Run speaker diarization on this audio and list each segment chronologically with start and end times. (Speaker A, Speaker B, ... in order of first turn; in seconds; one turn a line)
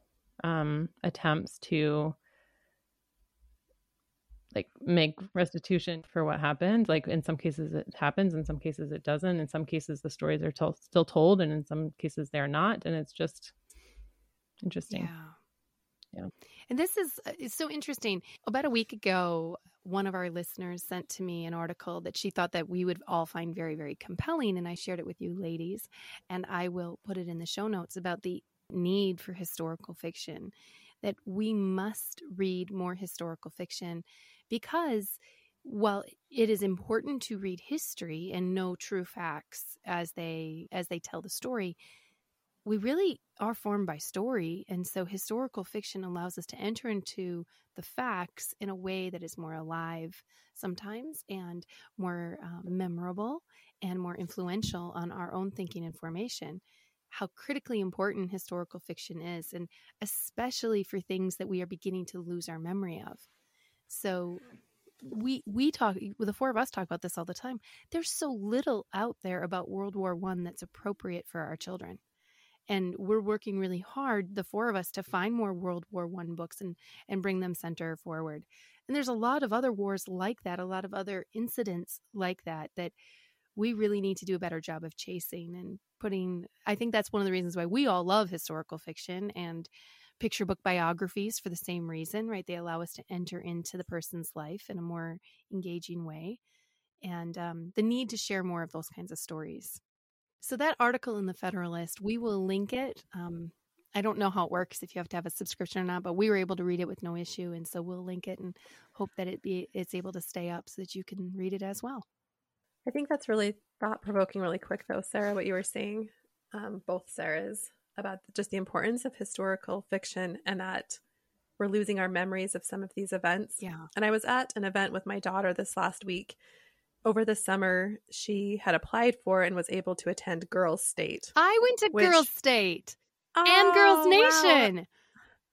Speaker A: 0.4-2.1
Speaker A: 4.5-13.5
Speaker A: 14.6-15.1
Speaker B: 14.9-15.3
Speaker B: 16.7-41.8
Speaker B: 42.6-63.3
Speaker B: 63.9-64.4
Speaker B: 65.0-72.0
Speaker B: 72.7-82.9
Speaker B: 83.5-89.7
Speaker B: 90.2-96.4
Speaker B: 97.0-99.8
Speaker B: 100.4-112.0
Speaker C: 112.8-121.0
Speaker C: 121.6-126.4
Speaker B: 123.6-123.9
Speaker C: 127.0-131.3
Speaker B: 131.3-134.9
Speaker C: 131.9-132.3
Speaker C: 133.3-134.7